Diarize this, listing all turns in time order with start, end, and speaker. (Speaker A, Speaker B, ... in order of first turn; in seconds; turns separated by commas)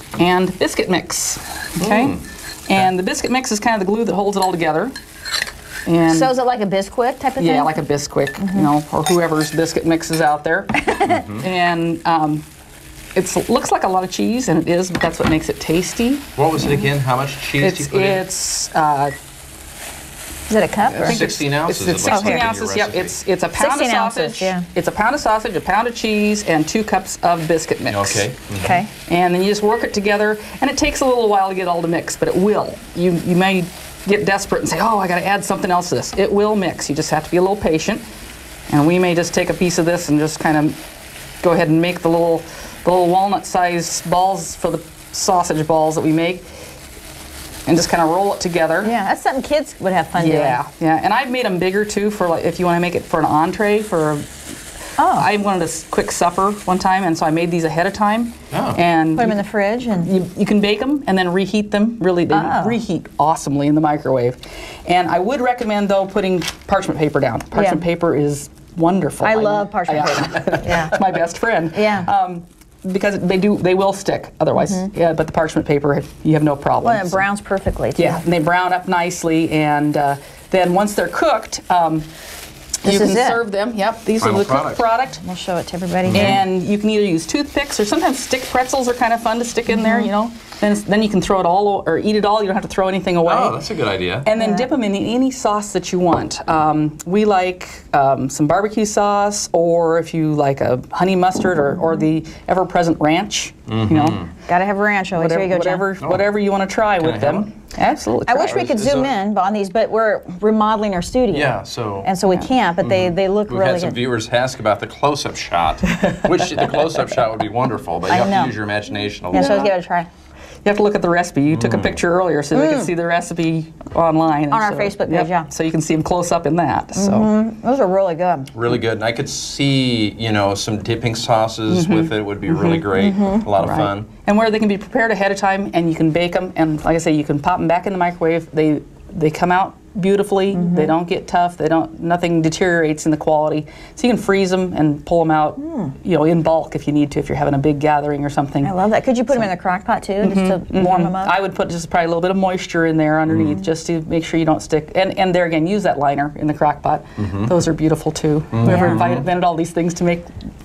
Speaker A: 0.2-4.9, Speaker B: 1.8-2.2, Speaker A: 5.9-6.3, Speaker C: 6.1-7.8, Speaker A: 7.4-12.4, Speaker C: 8.4-8.7, Speaker B: 11.0-11.5, Speaker A: 13.2-16.3, Speaker B: 16.4-18.2, Speaker A: 17.6-19.1, Speaker C: 20.5-21.2, Speaker A: 20.9-28.3, Speaker B: 21.0-23.2, Speaker C: 22.1-22.5, Speaker C: 23.6-24.6, Speaker B: 27.9-28.8, Speaker C: 28.6-28.9, Speaker A: 29.0-38.0, Speaker A: 38.7-40.8, Speaker A: 41.4-46.5, Speaker A: 47.7-48.9, Speaker C: 48.8-50.6, Speaker A: 50.2-54.3, Speaker C: 55.0-55.3, Speaker A: 55.1-59.4, Speaker B: 58.5-58.8, Speaker C: 59.1-60.1, Speaker A: 60.0-77.3, Speaker C: 62.3-62.8, Speaker C: 67.5-67.8, Speaker C: 69.2-71.0, Speaker C: 71.7-72.1, Speaker C: 74.6-74.9, Speaker C: 76.8-78.2, Speaker A: 78.0-82.1, Speaker A: 82.8-85.2, Speaker C: 82.8-83.4, Speaker B: 84.2-84.8, Speaker C: 85.2-86.4, Speaker B: 86.1-86.4, Speaker A: 86.1-93.6, Speaker C: 89.7-90.1, Speaker B: 93.2-94.3, Speaker A: 94.2-104.3, Speaker C: 94.4-94.7, Speaker B: 103.7-104.3, Speaker C: 104.5-105.9, Speaker A: 105.2-108.6, Speaker B: 106.0-106.3, Speaker B: 107.0-107.5, Speaker C: 108.3-114.0, Speaker B: 108.5-109.2, Speaker B: 111.3-112.1, Speaker B: 112.8-119.7, Speaker C: 118.1-118.5, Speaker C: 119.3-120.1, Speaker A: 119.3-119.7, Speaker A: 120.7-127.3, Speaker B: 121.5-122.0, Speaker C: 122.5-122.9, Speaker C: 124.5-125.5, Speaker C: 127.0-128.5, Speaker B: 128.5-134.1, Speaker A: 131.7-148.7, Speaker C: 132.9-133.5, Speaker C: 140.5-140.9, Speaker C: 148.6-151.4, Speaker A: 150.2-160.3, Speaker B: 153.3-153.6, Speaker B: 157.2-157.5, Speaker B: 158.5-159.3, Speaker C: 158.7-159.1